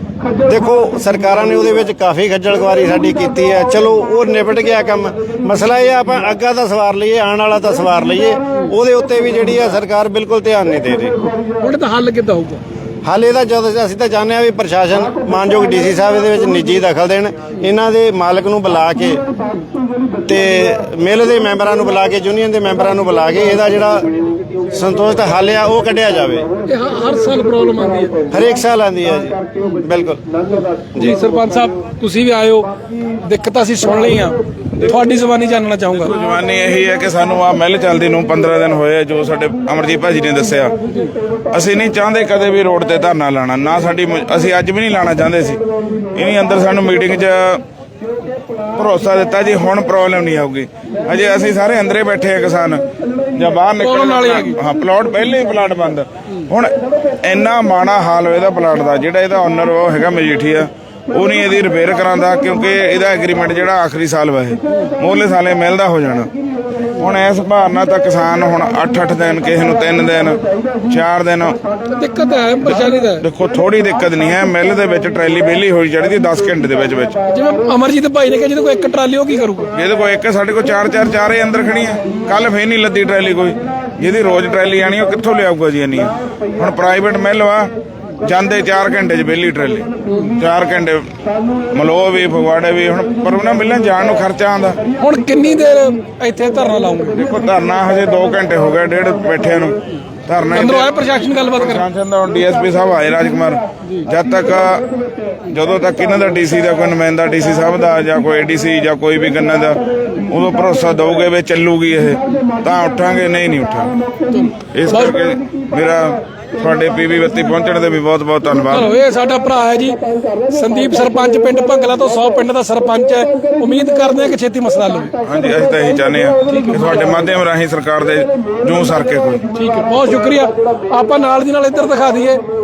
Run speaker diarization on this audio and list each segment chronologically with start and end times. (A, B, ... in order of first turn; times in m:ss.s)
0:00.4-0:11.2 A
0:11.6-0:12.6 B
0:13.0-0:19.2 A
0:20.2-0:24.1 A
0:24.7-0:26.5 A
0:26.7-0:28.2 B
0:28.3-0:30.2 A
0:31.0-0:32.7 B
0:33.2-0:36.1 B
0:36.0-0:40.7 C
0:41.5-0:47.6 C
0:48.8-1:06.3 C
0:53.8-0:54.6 B
1:07.0-1:11.6 C
1:11.9-1:13.2 B
1:12.6-1:17.2 C
1:17.3-1:19.7 B
1:19.7-1:31.1 C
1:31.7-1:34.8 C
1:35.0-1:37.2 B
1:37.1-1:44.9 C
1:40.5-1:41.8 B
1:45.5-1:54.0 C
1:54.3-1:55.2 B
1:54.7-1:58.9 C
1:58.7-2:05.2 B
2:05.2-2:09.4 C
2:06.5-2:07.2 B
2:09.5-2:12.4 B